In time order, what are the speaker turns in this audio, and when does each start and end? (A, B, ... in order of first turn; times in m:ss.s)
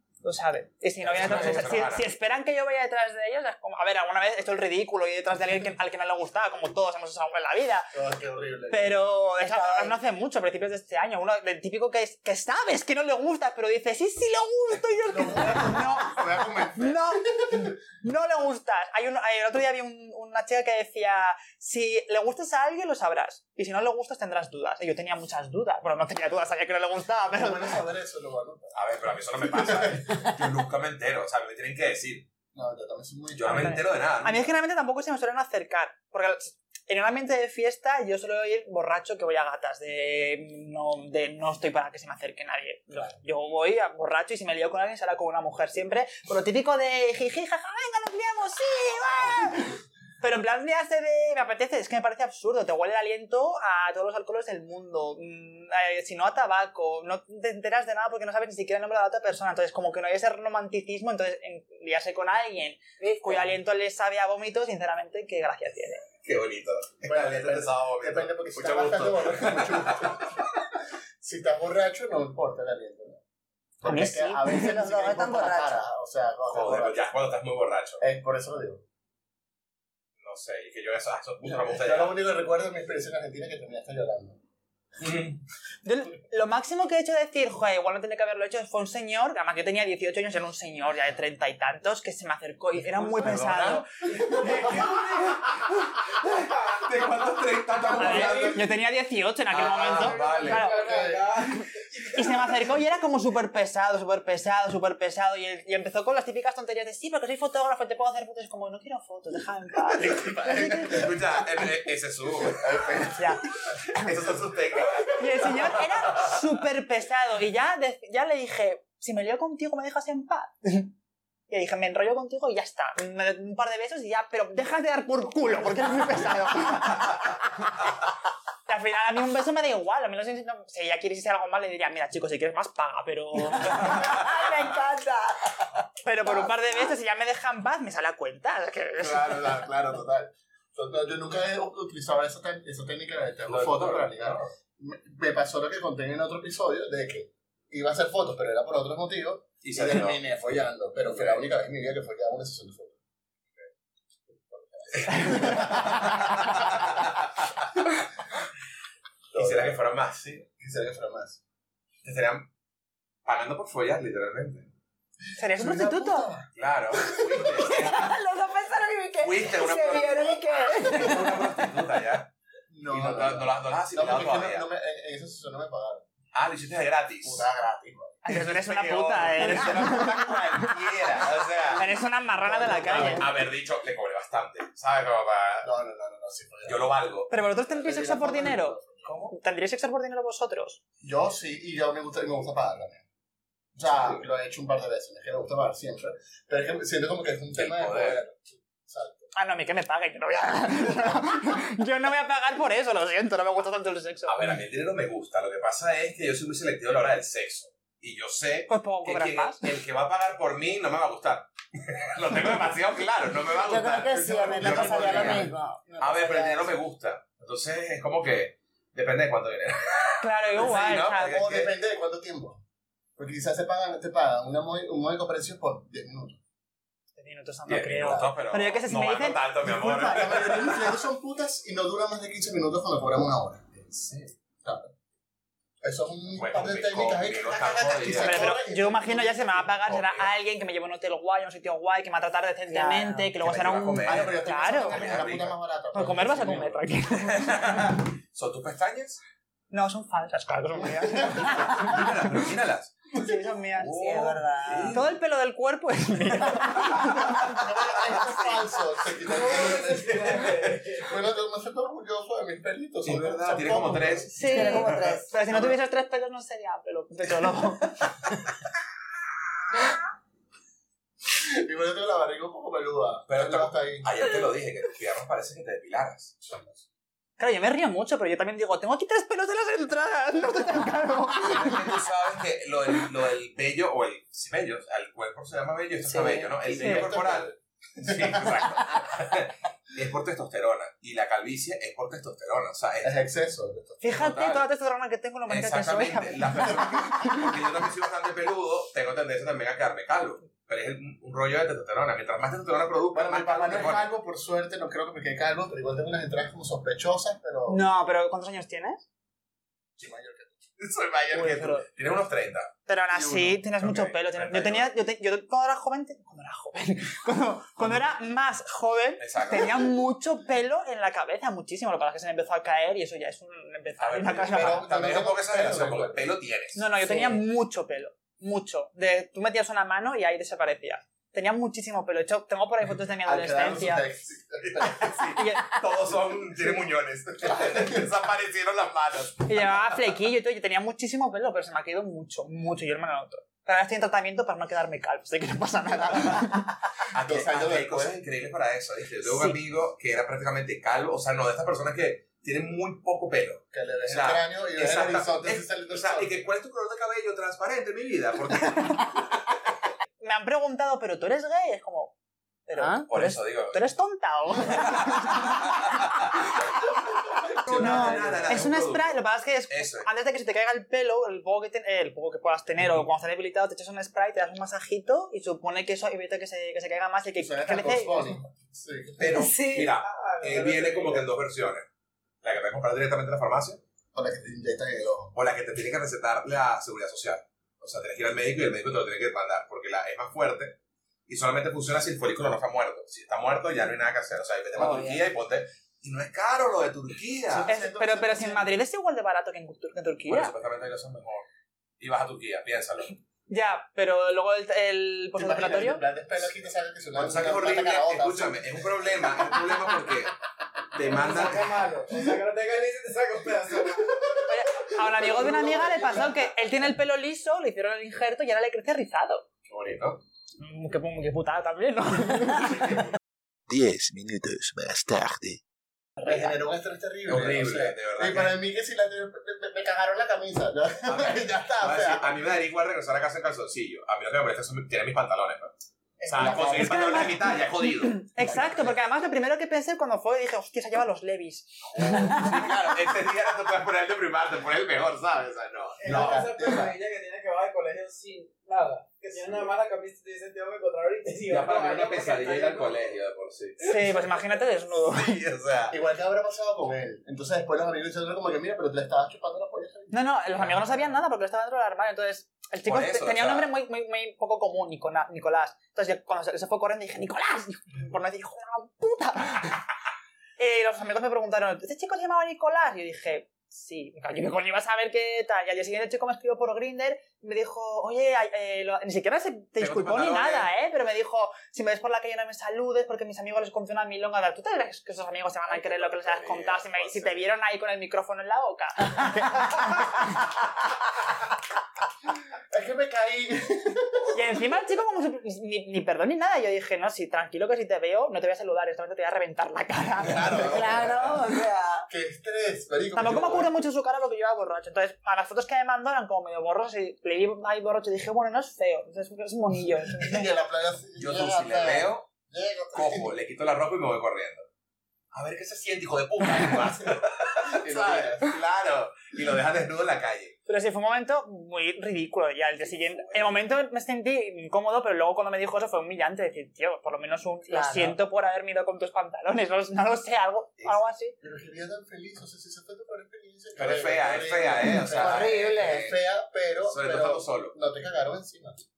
0:00.2-0:07.9 A
0:01.0-0:02.0 B
0:07.9-0:09.0 C
0:08.7-0:27.8 A
0:09.4-0:10.0 D
0:15.1-0:17.7 C
0:27.3-0:28.7 C
0:28.7-0:32.3 B
0:29.4-0:30.3 C
0:32.5-0:33.8 C
0:33.4-0:34.5 B
0:33.5-1:06.0 A
1:03.0-1:03.4 D
1:06.2-1:10.2 B
1:07.0-1:10.4 C
1:11.2-1:13.2 C
1:13.8-1:17.1 C
1:13.8-1:14.7 A
1:14.5-1:15.8 D
1:16.5-1:18.0 B
1:18.0-1:18.8 C
1:20.2-1:22.2 B
1:21.4-1:24.4 C
1:25.0-1:25.4 B
1:25.8-1:33.8 A
1:32.8-1:38.7 B
1:34.2-1:34.9 C
1:34.7-1:34.9 E
1:38.0-1:41.0 A
1:38.1-1:38.4 C
1:39.5-1:40.7 B
1:39.9-1:42.2 E
1:40.3-1:41.4 C
1:42.1-1:51.0 A
1:50.0-1:51.2 C
1:50.5-1:53.0 B
1:52.4-1:53.4 C
1:53.2-1:53.4 A
1:53.9-1:56.4 B
1:55.2-2:00.9 A
2:01.5-2:07.7 A
2:08.7-2:14.3 A
2:13.5-2:15.7 D
2:16.0-2:19.6 A
2:16.2-2:16.9 D
2:19.0-2:33.0 C
2:23.5-2:24.5 B
2:29.6-2:30.2 B
2:31.1-2:31.4 B
2:34.3-2:36.8 C
2:34.9-2:37.1 B
2:39.3-2:41.4 C
2:39.4-2:40.4 B
2:42.0-2:42.5 B
2:43.2-2:44.7 B
2:45.4-2:46.3 A
2:45.4-2:47.7 C
2:46.6-2:48.2 B
2:47.6-2:51.7 D
2:49.2-2:52.3 B
2:52.7-2:56.1 C
2:52.9-2:54.6 B
2:56.3-2:57.4 B
2:57.2-2:58.2 C
2:58.2-3:00.6 A
2:58.3-3:01.8 B
3:01.8-3:03.3 A
3:02.4-3:03.4 C
3:02.9-3:05.7 B
3:05.6-3:09.3 C
3:06.6-3:07.3 B
3:07.3-3:10.8 A
3:11.0-3:13.0 C
3:13.8-3:19.3 C
3:17.6-3:18.2 B
3:19.3-3:24.4 A
3:24.3-3:41.7 B
3:28.7-3:29.6 A
3:33.6-3:36.8 D
3:34.1-3:35.6 C
3:40.2-3:41.4 A
3:41.2-3:42.6 C
3:43.2-3:46.4 C
3:47.2-3:49.9 A
3:47.7-3:51.0 B
3:49.7-3:53.8 C
3:53.8-3:54.3 B
3:54.6-3:54.9 C
3:55.8-3:59.7 C
3:56.4-3:58.6 B
3:58.2-4:05.1 A
3:59.8-4:00.3 B
4:02.7-4:03.4 D
4:03.4-4:05.6 B
4:04.0-4:06.8 C
4:05.9-4:07.9 A
4:07.1-4:09.2 B
4:09.7-4:12.1 A
4:11.4-4:13.1 B
4:13.1-4:14.0 A
4:13.8-4:15.1 B
4:13.9-4:15.0 D
4:14.9-4:17.5 A
4:16.6-4:17.6 B
4:17.0-4:24.3 C
4:19.4-4:21.1 E
4:23.0-4:25.1 B
4:24.3-4:28.2 A
4:24.4-4:25.3 D
4:31.3-4:34.1 C
4:33.3-4:36.4 B
4:36.4-4:36.8 C
4:37.4-4:42.0 A
4:41.4-4:53.2 B
4:46.0-4:46.5 D
4:46.6-4:48.9 C
4:46.8-4:47.1 A
4:53.0-4:54.3 C
4:54.0-4:57.5 A
4:54.0-4:54.6 B
4:55.5-5:04.1 B
5:03.1-5:07.8 C
5:07.7-5:09.0 A
5:10.0-5:10.7 C
5:10.8-5:12.7 B
5:11.3-5:11.8 A
5:12.9-5:24.9 A
5:13.1-5:13.6 C
5:13.8-5:14.9 B
5:19.2-5:19.9 B
5:24.0-5:26.8 B
5:24.5-5:26.3 C
5:26.8-5:34.1 A
5:27.0-5:27.4 D
5:33.2-5:35.2 C
5:34.6-5:40.0 B
5:35.4-5:35.6 A
5:37.4-5:38.1 C
5:39.5-5:46.7 A
5:47.1-5:59.4 B
5:47.1-5:48.2 C
5:53.7-5:56.4 C
6:00.2-6:02.1 A
6:02.7-6:05.9 A
6:02.8-6:03.4 D
6:03.1-6:03.9 B
6:04.8-6:09.2 B
6:07.6-6:08.9 C
6:07.7-6:18.4 A
6:09.7-6:10.1 B
6:17.4-6:19.5 C
6:19.2-6:21.9 B
6:19.3-6:20.0 D
6:20.0-6:21.3 E
6:22.4-6:23.8 B
6:24.1-6:25.4 C
6:25.4-6:37.7 B
6:34.8-6:35.2 D
6:37.5-6:38.7 C
6:37.7-6:40.5 A
6:40.3-6:41.5 B
6:42.0-6:43.2 B
6:43.5-6:46.0 A
6:45.4-6:49.7 C
6:47.2-6:50.4 B
6:50.9-6:51.7 B
6:51.0-6:54.4 E
6:53.9-6:54.4 C
6:54.5-6:59.4 A
6:55.1-6:56.5 C
6:59.7-7:00.2 B
7:00.6-7:03.0 A
7:03.7-7:05.6 F
7:06.2-7:12.4 C
7:07.3-7:08.6 B
7:11.1-7:15.7 B
7:16.2-7:17.3 D
7:16.3-7:18.9 B
7:18.1-7:22.4 A
7:22.0-7:26.5 B
7:26.0-7:33.2 E
7:26.0-7:27.0 C
7:31.5-7:34.4 B
7:33.8-7:35.4 A
7:35.1-7:36.0 B
7:35.9-7:40.2 C
7:40.1-7:49.8 A
7:40.5-7:41.1 B
7:42.9-7:43.7 B
7:50.6-8:10.1 A
7:59.8-8:00.7 B
8:05.7-8:07.5 B
8:12.7-8:14.6 C
8:14.3-8:20.7 A
8:20.2-8:21.4 C
8:20.4-8:22.1 D
8:22.1-8:23.7 C
8:23.1-8:30.5 A
8:30.2-8:33.3 C
8:31.2-8:32.3 B
8:32.9-8:34.7 B
8:35.3-8:40.6 B
8:37.0-8:38.6 C
8:40.7-8:51.4 A
8:42.9-8:43.5 B
8:47.7-8:48.2 D
8:51.4-8:58.8 C
8:53.8-8:56.2 B
8:55.1-8:56.1 D
8:56.8-8:57.8 B